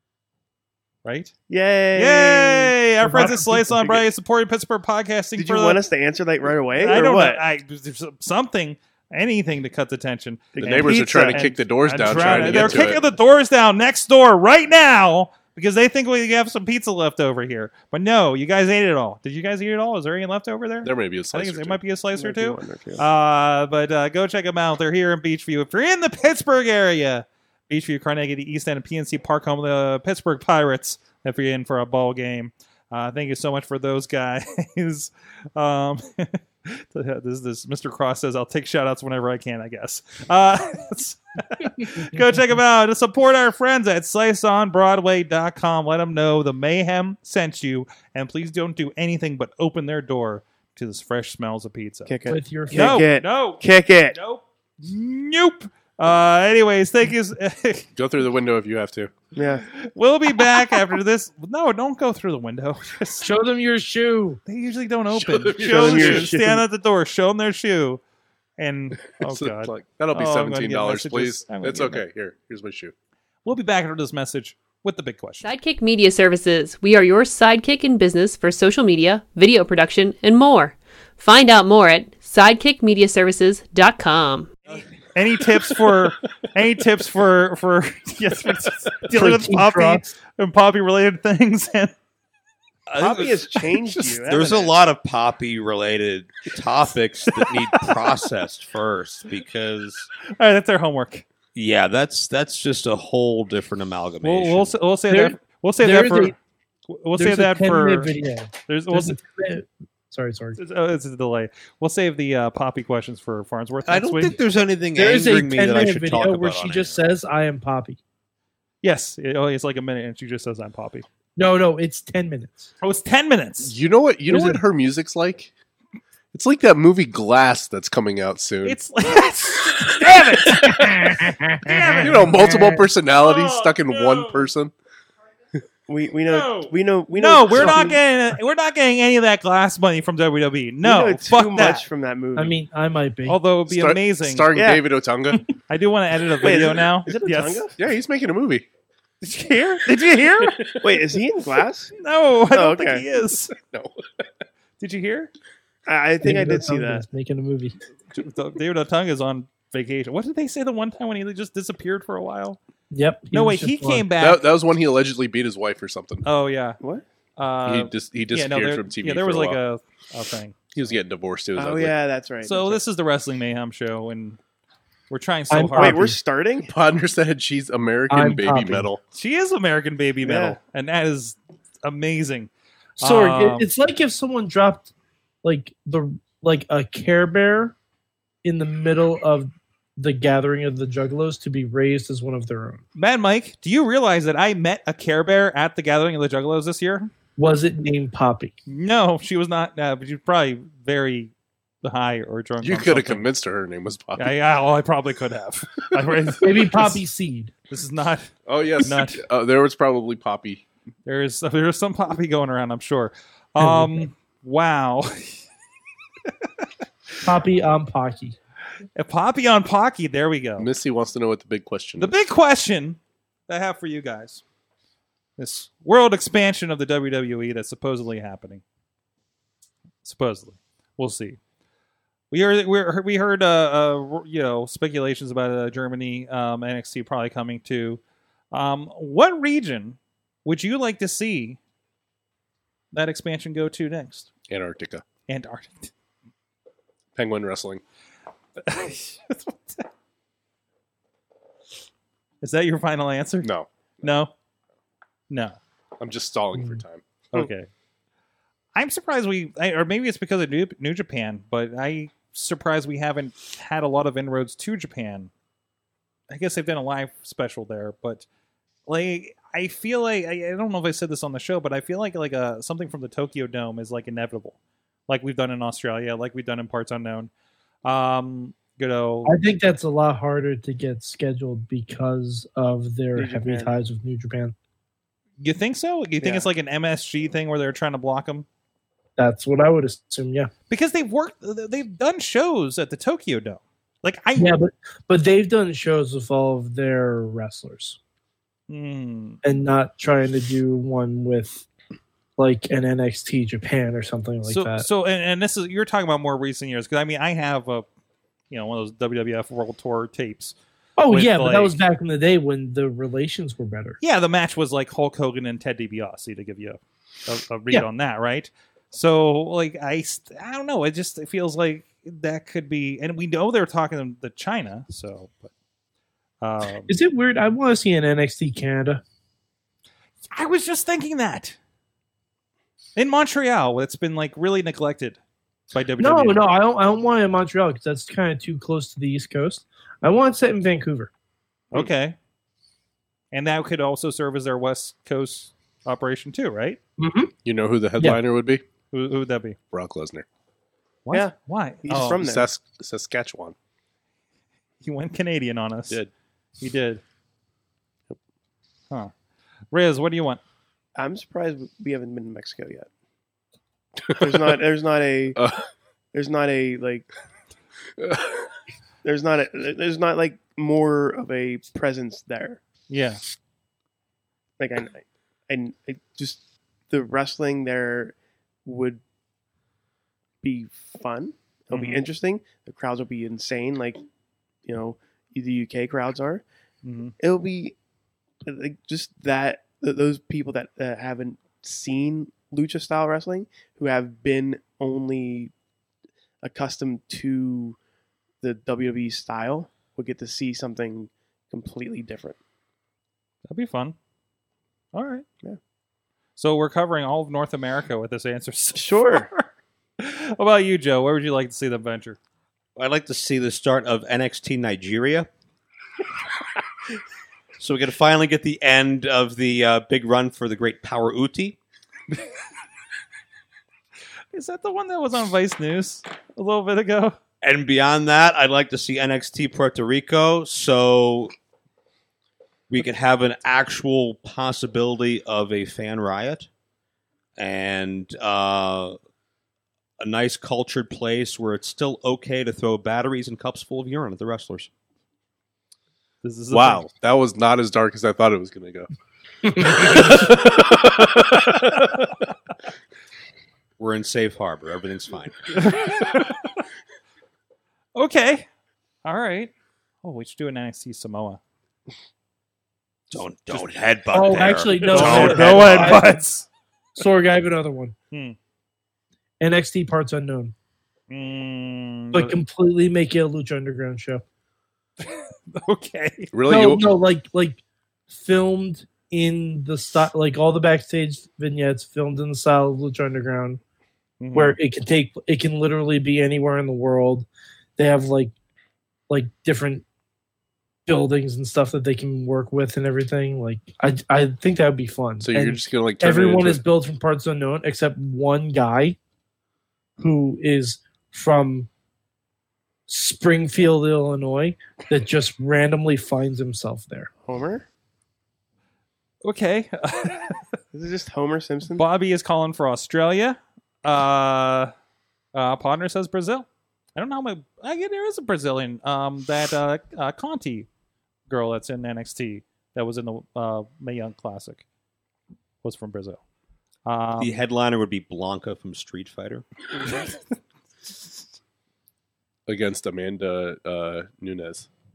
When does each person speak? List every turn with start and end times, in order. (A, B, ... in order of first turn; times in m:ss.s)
0:01.0-0:01.3 A
0:01.5-0:04.0 B
0:02.0-0:05.8 A
0:03.0-0:03.6 C
0:05.4-0:07.4 B
0:06.8-0:52.1 A
0:10.6-0:12.9 B
0:10.6-0:13.1 D
0:20.8-0:21.8 D
0:22.1-0:23.0 B
0:52.1-0:54.2 B
0:52.3-0:53.0 C
0:52.7-0:57.9 A
0:58.0-0:59.2 D
0:59.4-0:59.7 B
0:59.7-1:03.3 A
1:03.2-1:04.4 C
1:04.4-1:08.0 A
1:05.1-1:06.3 D
1:05.6-1:06.6 B
1:08.6-1:12.1 A
1:09.1-1:12.9 D
1:13.4-1:15.5 A
1:15.4-1:24.8 E
1:25.1-1:31.9 A
1:29.1-1:30.1 C
1:32.9-1:33.7 F
1:33.0-1:34.8 B
1:34.2-1:40.1 F
1:37.5-1:37.9 A
1:40.4-1:41.2 A
1:41.6-1:44.8 F
1:44.2-1:46.4 A
1:45.1-1:46.4 C
1:46.9-1:48.1 A
1:47.1-1:50.6 C
1:48.7-1:49.2 A
1:50.6-1:54.4 A
1:53.9-1:57.1 F
1:55.0-1:58.0 C
1:58.8-2:01.1 A
2:01.4-2:02.7 C
2:02.8-2:03.8 A
2:03.6-2:05.5 D
2:04.3-2:04.6 C
2:06.3-2:08.8 D
2:08.6-2:10.8 A
2:10.4-2:12.9 C
2:10.6-2:11.0 D
2:11.6-2:12.3 A
2:12.0-2:14.7 D
2:13.1-2:14.5 A
2:15.9-2:18.0 B
2:16.3-2:21.9 A
2:17.6-2:17.9 C
2:20.8-2:22.6 B
2:22.4-2:23.4 C
2:23.3-2:24.5 A
2:23.7-2:25.4 D
2:24.5-2:24.9 B
2:25.7-2:27.7 A
2:26.4-2:27.8 B
2:27.8-2:28.7 D
2:29.2-2:30.6 A
2:30.8-2:31.9 B
2:32.0-2:33.5 A
2:32.5-2:33.1 B
2:33.5-2:34.0 D
2:34.8-2:35.3 A
2:35.9-2:37.0 B
2:36.2-2:37.8 C
2:38.1-2:42.6 A
2:42.9-2:44.1 C
2:43.3-2:44.4 A
2:44.2-2:46.2 D
2:46.2-2:46.8 A
2:47.4-2:50.6 A
2:47.7-2:49.6 D
2:50.7-2:52.0 D
2:51.6-2:52.8 B
2:52.4-2:54.4 A
2:55.1-2:56.1 A
2:55.5-2:56.2 C
2:55.8-2:56.7 B
2:56.7-2:59.0 D
2:58.1-2:58.9 C
2:59.1-3:03.7 A
3:00.2-3:00.6 B
3:03.0-3:04.9 C
3:05.4-3:07.8 C
3:08.4-3:12.8 C
3:13.0-3:17.1 A
3:17.4-3:18.6 C
3:18.7-3:21.3 A
3:21.8-3:23.3 A
3:22.6-3:24.3 D
3:24.2-3:27.0 A
3:26.4-3:27.5 C
3:27.7-3:29.2 A
3:28.4-3:30.7 D
3:31.1-3:35.4 A
3:33.6-3:34.1 C
3:36.3-3:36.7 A
3:37.2-3:38.4 C
3:39.0-3:40.7 A
3:40.6-3:42.2 D
3:42.0-3:44.4 A
3:45.4-3:48.6 A
3:50.0-3:51.4 A
3:52.3-3:58.0 A
3:58.5-4:01.6 A
4:02.9-4:04.3 A
4:04.5-4:05.0 D
4:05.3-4:05.9 A
4:07.2-4:07.8 D
4:08.6-4:09.9 A
4:12.4-4:13.5 A
4:13.4-4:14.1 D
4:14.0-4:14.3 A
4:15.3-4:15.6 A
4:16.0-4:17.1 D
4:17.3-4:17.7 A
4:18.8-4:25.3 A
4:26.3-4:28.3 A
4:28.9-4:34.6 A
4:35.1-4:37.3 A
4:37.8-4:39.4 A
4:39.2-4:44.6 C
4:43.1-4:43.8 B
4:45.4-4:48.4 A
4:46.2-4:46.5 B
4:49.2-4:50.5 C
4:50.7-4:54.6 A
4:54.4-4:58.0 C
4:58.7-4:59.4 A
4:59.4-5:01.7 C
5:02.4-5:04.9 C
5:04.4-5:07.9 A
5:08.5-5:10.6 A
5:11.0-5:14.0 C
5:11.1-5:11.8 A
5:14.0-5:25.5 A
5:26.4-5:26.9 A
5:26.9-5:29.0 C
5:30.3-5:31.6 A
5:33.0-5:35.2 A
5:35.7-5:36.5 A
5:36.0-5:41.1 C
5:41.7-5:42.2 A
5:43.3-5:46.8 A
5:47.0-5:47.3 C
5:47.4-5:48.6 D
5:48.9-5:49.6 A
5:49.7-5:50.3 D
5:51.1-5:52.2 A
5:51.1-5:52.5 B
5:52.1-5:53.6 D
5:54.8-5:56.0 A
5:56.6-5:57.0 A
5:59.7-6:00.4 A
6:01.0-6:02.9 B
6:04.1-6:04.6 D
6:04.2-6:05.4 B
6:05.4-6:05.7 D
6:06.1-6:07.1 B
6:08.0-6:08.5 D
6:09.0-6:12.6 B
6:12.9-6:13.2 A
6:14.6-6:19.0 B
6:20.4-6:24.0 B
6:21.7-6:22.0 A
6:24.7-6:26.4 B
6:26.8-6:27.1 A
6:27.2-6:27.8 B
6:28.4-6:35.5 B
6:36.4-6:37.8 B
6:38.4-6:42.4 B
6:43.5-6:44.0 A
6:44.9-6:45.2 A
6:46.4-6:49.5 A
6:48.8-6:49.3 B
6:50.0-6:52.2 A
6:52.8-6:55.3 F
6:57.6-7:01.6 F
7:04.3-7:07.2 A
7:07.4-7:11.3 F
7:12.7-7:16.5 F
7:17.4-7:19.0 F
7:20.0-7:24.7 F
7:26.2-7:26.9 A
7:26.5-7:28.9 D
7:29.5-7:32.1 D
7:33.8-7:35.5 F
7:35.5-7:36.6 A
7:38.0-7:38.4 A
7:39.0-7:39.5 A
7:40.0-7:41.4 A
7:43.1-7:46.0 F
7:44.1-7:46.2 C
7:44.8-7:46.5 A
7:47.0-7:48.0 C
7:48.1-7:48.4 A
7:49.4-7:50.5 C
7:51.1-7:52.4 A
7:52.1-7:54.2 C
7:55.0-7:56.3 A
7:56.3-7:57.0 D
7:56.4-8:03.6 C
8:04.2-8:04.6 A
8:04.3-8:07.3 C
8:07.8-8:08.3 C
8:09.1-8:09.8 C
8:10.9-8:19.0 C
8:15.2-8:16.6 D
8:20.0-8:21.7 C
8:22.9-8:27.1 C
8:27.2-8:27.7 B
8:29.2-8:30.4 A
8:30.7-8:31.8 B
8:31.8-8:34.7 A
8:35.3-8:40.7 A
8:41.3-8:44.6 A
8:45.6-8:46.2 A
8:46.9-8:47.4 A
8:47.2-8:49.4 F
8:52.5-8:54.7 D